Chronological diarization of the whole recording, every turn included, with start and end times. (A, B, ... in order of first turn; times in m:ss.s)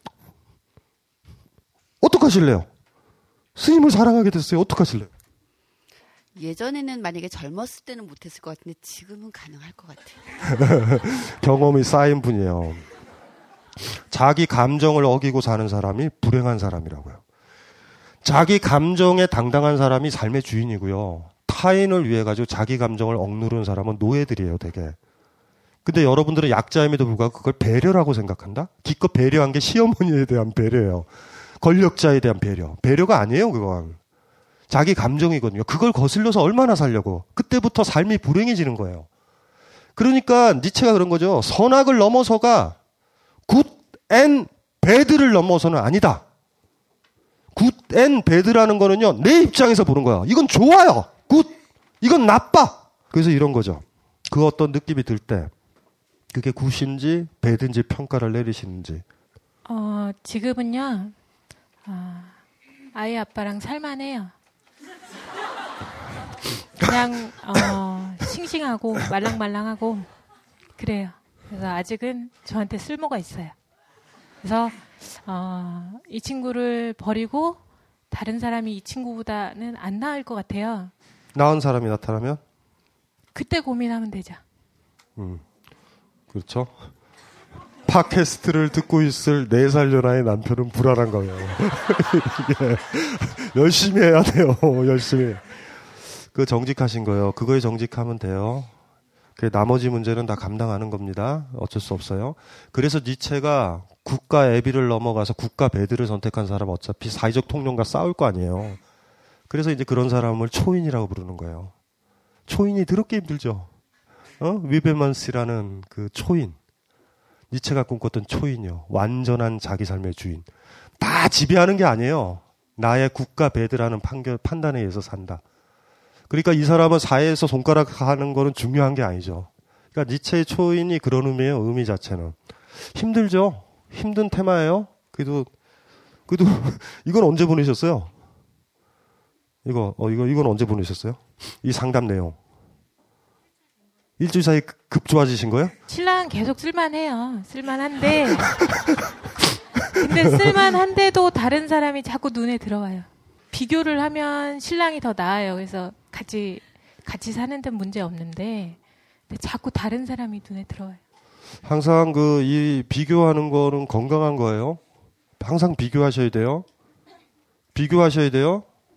0:02.0-0:02.7 A
0:03.6-0:05.1 A
0:06.3-0:10.5 B
0:10.5-0:12.8 A
0:14.1-0:17.2 A
0:18.2-0:25.0 A
0:25.8-0:31.1 A
0:31.6-0:34.0 A
0:34.7-0:39.1 A
0:40.0-0:42.8 A
0:43.5-0:46.2 A
0:47.5-0:55.5 A
0:56.3-0:59.0 A
0:59.6-1:01.2 C
1:01.8-1:02.4 C
1:02.9-1:04.3 C
1:06.8-1:10.1 C
1:10.8-1:13.6 C
1:14.4-1:20.9 C
1:21.3-1:22.4 A
1:23.3-1:24.4 C
1:25.2-1:25.4 A
1:26.3-1:26.9 A
1:27.8-1:35.4 A
1:36.3-1:38.7 A
1:39.4-1:48.8 A
1:49.5-1:51.7 A
1:52.5-1:53.7 A
1:54.4-1:56.6 A
1:57.5-2:00.5 A
2:01.0-2:05.4 A
2:06.3-2:15.5 A
2:16.3-2:18.1 A
2:19.6-2:22.4 A
2:24.2-2:25.7 A
2:25.8-2:28.7 C
2:29.8-2:30.2 A
2:29.9-2:38.8 C
2:39.3-2:41.0 C
2:41.6-2:44.8 A
2:45.4-2:46.6 A
2:47.7-2:48.6 A